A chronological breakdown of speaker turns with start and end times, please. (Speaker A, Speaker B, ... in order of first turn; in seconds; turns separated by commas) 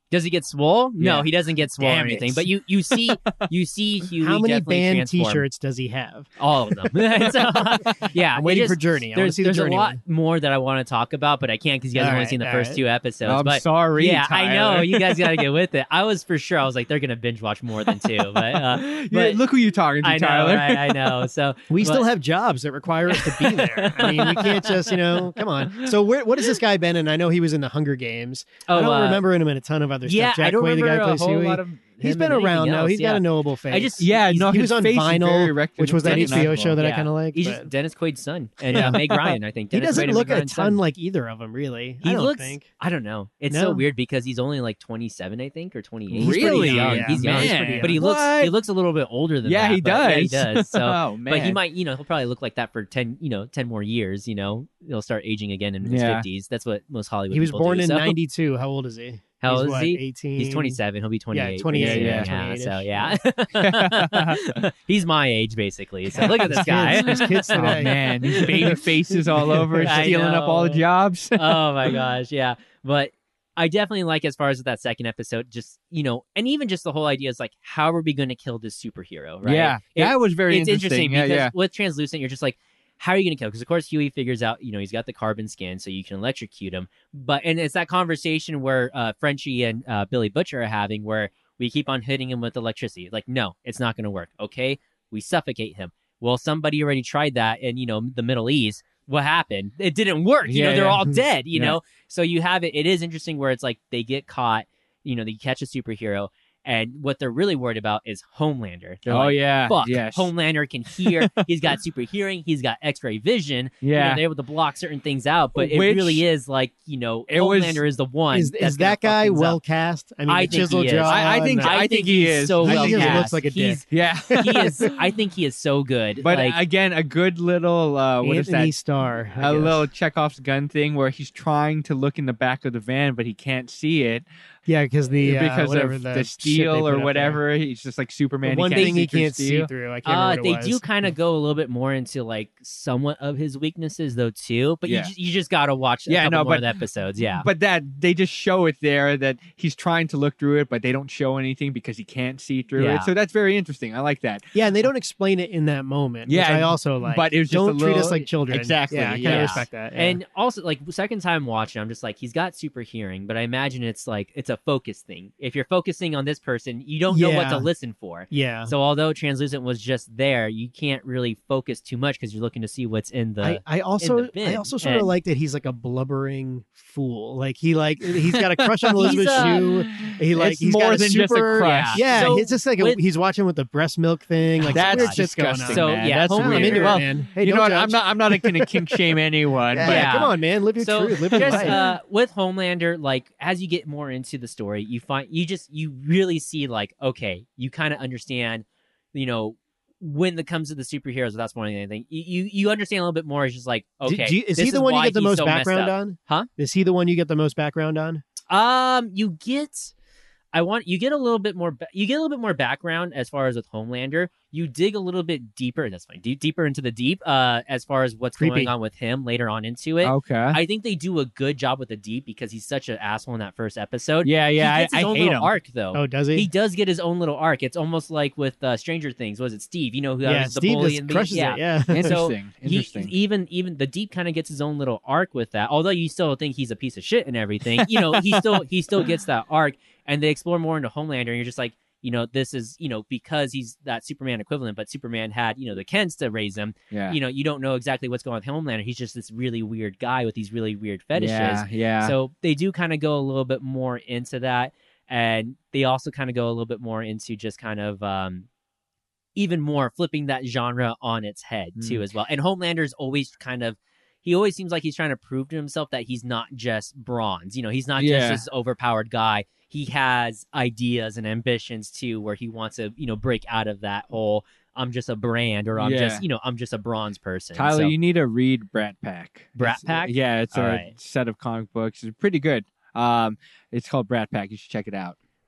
Speaker A: 0.1-5.5, Speaker B: 1.0-1.3, Speaker B: 1.8-2.5, Speaker C: 4.2-6.3, Speaker A: 6.4-19.4, Speaker C: 8.3-10.0, Speaker C: 11.9-12.8, Speaker B: 13.2-15.4, Speaker B: 17.9-21.2, Speaker A: 20.0-22.1, Speaker C: 21.7-37.7, Speaker A: 23.4-24.9, Speaker A: 28.7-29.2, Speaker A: 30.1-34.3, Speaker B: 34.0-36.8, Speaker A: 36.0-40.8, Speaker C: 38.7-42.7, Speaker A: 42.0-58.2, Speaker C: 43.5-43.8, Speaker B: 46.1-48.5, Speaker C: 46.1-48.0, Speaker B: 49.4-51.6, Speaker B: 55.8-56.2, Speaker C: 57.3-60.8, Speaker A: 59.4-68.8, Speaker C: 61.3-63.1, Speaker B: 61.7-62.3, Speaker B: 63.6-64.6, Speaker C: 66.1-70.1, Speaker B: 66.5-71.9, Speaker A: 69.8-70.8, Speaker A: 71.3-119.6, Speaker B: 79.4-81.5, Speaker B: 100.4-101.8, Speaker B: 109.0-110.3, Speaker B: 111.0-111.4, Speaker B: 113.8-114.2, Speaker B: 115.5-116.2, Speaker B: 117.3-117.8, Speaker C: 118.3-123.8, Speaker A: 120.3-126.6, Speaker B: 121.0-123.3, Speaker B: 123.9-124.7, Speaker C: 124.6-124.9, Speaker B: 126.2-128.7, Speaker C: 128.2-129.8, Speaker B: 129.4-134.2, Speaker C: 134.7-137.4, Speaker B: 135.2-139.7, Speaker C: 138.4-140.8, Speaker A: 138.7-139.0, Speaker A: 140.0-147.5, Speaker B: 144.8-145.1, Speaker B: 146.1-146.7, Speaker B: 147.3-154.4, Speaker A: 152.8-153.1, Speaker C: 154.5-160.2, Speaker B: 156.3-159.7, Speaker A: 159.2-175.1, Speaker C: 167.1-167.7, Speaker C: 168.3-168.7, Speaker C: 173.4-189.0, Speaker B: 178.2-182.4, Speaker A: 179.0-179.7, Speaker A: 181.6-183.0, Speaker A: 184.7-187.0, Speaker B: 184.7-190.3, Speaker C: 189.7-191.8, Speaker A: 189.8-206.5, Speaker B: 191.3-191.8, Speaker C: 204.1-208.2, Speaker A: 208.5-209.9, Speaker A: 210.5-258.5, Speaker C: 218.4-218.7, Speaker B: 220.0-220.6, Speaker B: 224.2-225.5, Speaker C: 225.9-226.5, Speaker C: 230.2-232.2, Speaker B: 231.9-233.1, Speaker B: 237.8-238.6, Speaker B: 246.9-247.2, Speaker B: 251.1-252.1, Speaker A: 259.4-277.9, Speaker B: 261.8-262.0, Speaker B: 268.0-268.4, Speaker B: 275.8-276.2, Speaker B: 277.5-285.2, Speaker A: 279.6-280.9